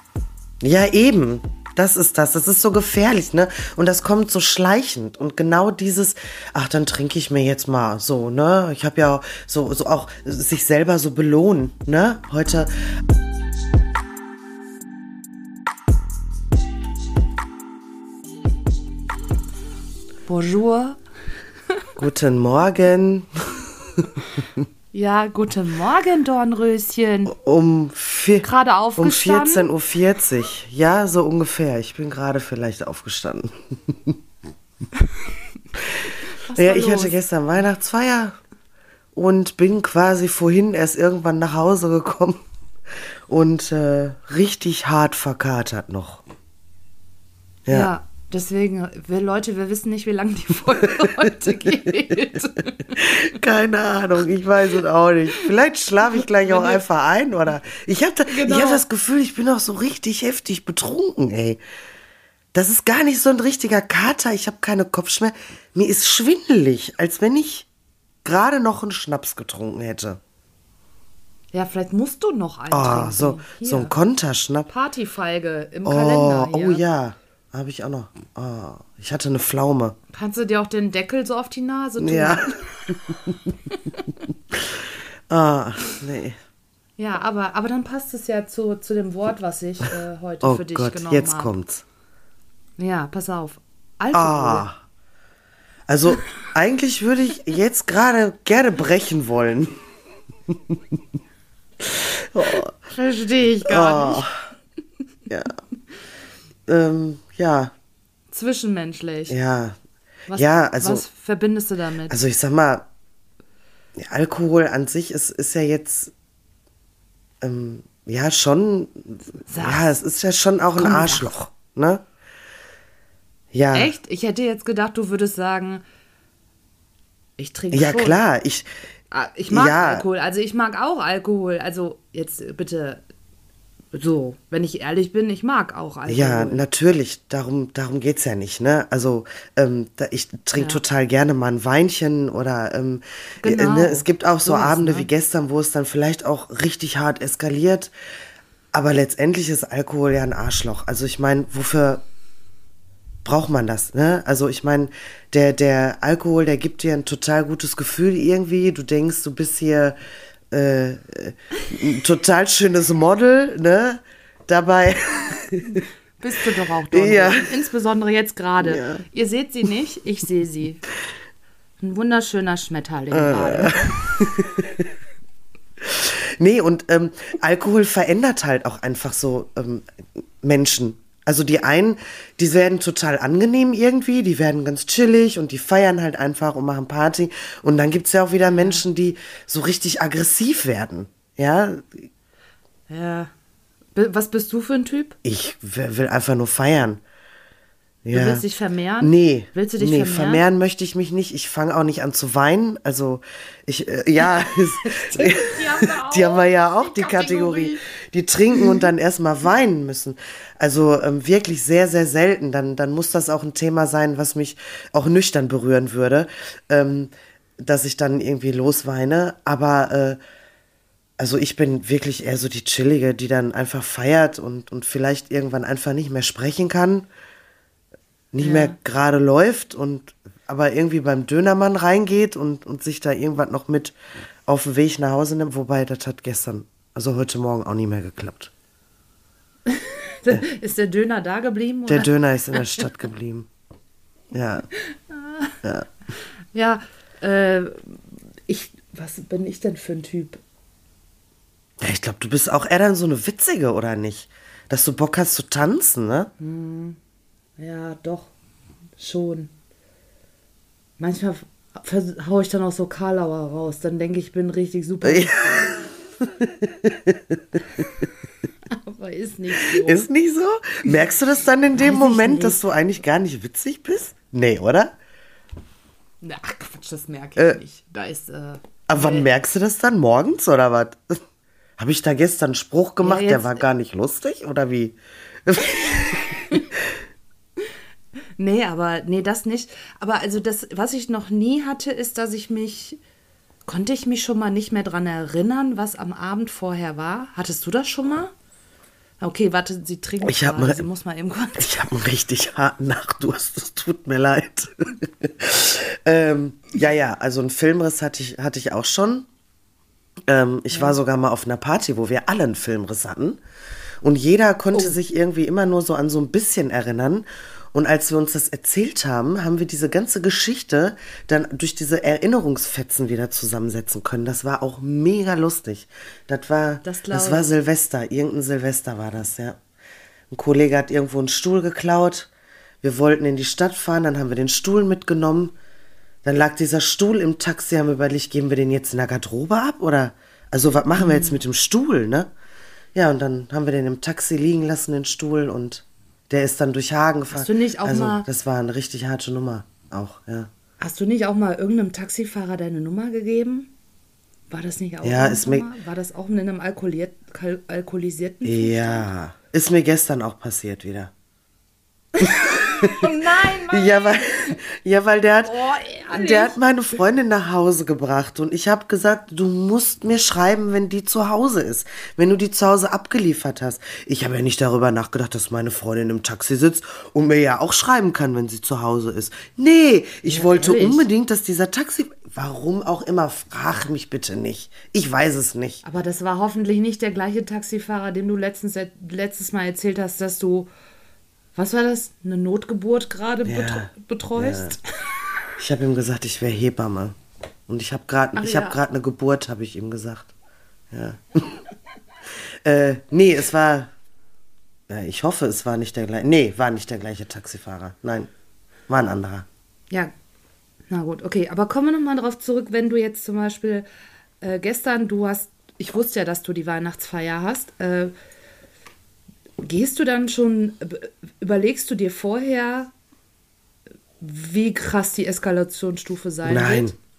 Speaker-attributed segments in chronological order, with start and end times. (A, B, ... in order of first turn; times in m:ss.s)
0:00.6-0:12.7 A
0:20.3-0:21.0 B
0:22.0-0:24.6 A
0:24.9-0:27.3 B
0:27.3-0:34.2 A
0:28.4-0:29.7 B
0:35.9-0:38.4 A
0:36.2-0:37.2 B
0:39.1-0:42.4 A
0:43.3-0:46.2 A
0:47.7-0:47.9 A
0:47.7-0:53.1 B
0:53.0-1:01.6 A
0:56.1-0:56.8 B
0:58.3-0:58.8 B
1:02.5-1:07.7 A
1:08.2-1:10.2 A
1:11.5-1:13.9 B
1:12.7-1:14.7 A
1:14.7-1:16.8 B
1:15.8-1:20.0 A
1:20.1-1:22.9 B
1:22.0-1:23.4 A
1:24.5-1:26.4 A
1:27.0-1:31.5 B
1:30.4-1:31.8 A
1:32.8-1:34.7 B
1:34.1-1:34.8 A
1:35.9-1:39.8 A
1:40.5-1:41.0 A
1:41.8-1:42.7 A
1:42.9-1:44.2 B
1:43.6-1:44.3 A
1:45.3-1:45.6 A
1:46.7-1:47.7 A
1:48.3-1:49.4 B
1:49.3-1:49.8 A
1:50.3-1:52.2 B
1:50.3-1:51.0 A
1:52.1-1:52.9 A
1:54.0-1:56.1 A
1:57.4-2:02.0 A
1:59.5-1:59.9 B
2:00.7-2:01.3 B
2:03.5-2:03.9 A
2:03.7-2:05.8 B
2:07.4-2:08.2 B
2:07.7-2:08.7 A
2:09.1-2:13.0 B
2:09.5-2:10.0 A
2:13.9-2:16.6 B
2:16.1-2:27.9 A
2:20.6-2:20.8 B
2:23.4-2:25.1 B
2:28.7-2:32.0 A
2:33.2-2:40.0 A
2:40.5-2:45.8 A
2:46.2-2:50.8 B
2:46.9-2:47.5 A
2:48.6-2:49.0 A
2:51.8-2:53.9 B
2:53.1-2:54.9 A
2:55.8-3:12.1 A
3:08.5-3:08.8 B
3:12.9-3:13.3 B
3:13.9-3:15.2 B
3:15.2-3:17.0 A
3:18.0-3:18.4 A
3:18.1-3:20.4 B
3:19.0-3:40.2 A
3:24.8-3:27.8 B
3:28.5-3:28.8 B
3:41.2-3:47.1 A
3:48.3-3:53.9 A
3:48.4-3:48.8 B
3:54.5-3:58.5 A
3:59.7-4:02.9 B
4:01.9-4:03.5 A
4:04.3-4:04.7 A
4:05.1-4:05.6 B
4:06.5-4:10.4 B
4:11.8-4:16.3 A
4:16.4-4:17.0 B
4:17.6-4:18.3 B
4:19.0-4:19.5 B
4:21.0-4:25.6 B
4:25.0-4:27.8 A
4:28.7-4:30.0 B
4:29.6-4:34.9 A
4:31.8-4:32.6 B
4:36.2-4:39.3 B
4:38.9-4:41.2 A
4:41.8-4:47.0 A
4:43.0-4:43.6 B
4:46.0-4:46.6 B
4:48.4-4:53.0 B
4:53.7-4:58.3 B
4:59.2-5:01.8 B
5:00.2-5:00.8 A
5:01.6-5:09.2 A
5:10.3-5:13.4 A
5:14.0-5:29.6 A
5:26.8-5:27.5 B
5:30.3-5:32.3 A
5:32.8-5:35.5 A
5:36.2-5:42.3 A
5:40.9-5:41.4 B
5:42.9-5:50.5 A
5:47.3-5:48.2 B
5:50.8-5:53.7 B
5:54.5-5:59.1 B
5:55.0-5:55.7 A
5:58.4-6:01.1 A
6:02.1-6:04.6 B
6:02.2-6:03.1 A
6:03.7-6:05.5 A
6:05.4-6:06.6 B
6:06.1-6:25.8 A
6:20.2-6:21.1 B
6:25.8-6:30.7 B
6:31.6-6:34.8 B
6:33.5-6:34.7 A
6:35.6-6:37.2 A
6:37.7-6:40.3 A
6:38.4-6:38.8 B
6:40.9-6:41.6 A
6:42.6-6:43.9 A
6:44.9-6:48.3 A
6:48.9-6:49.4 A
6:50.9-6:53.9 B
6:54.4-6:58.1 B
6:59.6-7:02.9 B
7:04.2-7:06.9 B
7:06.4-7:06.9 A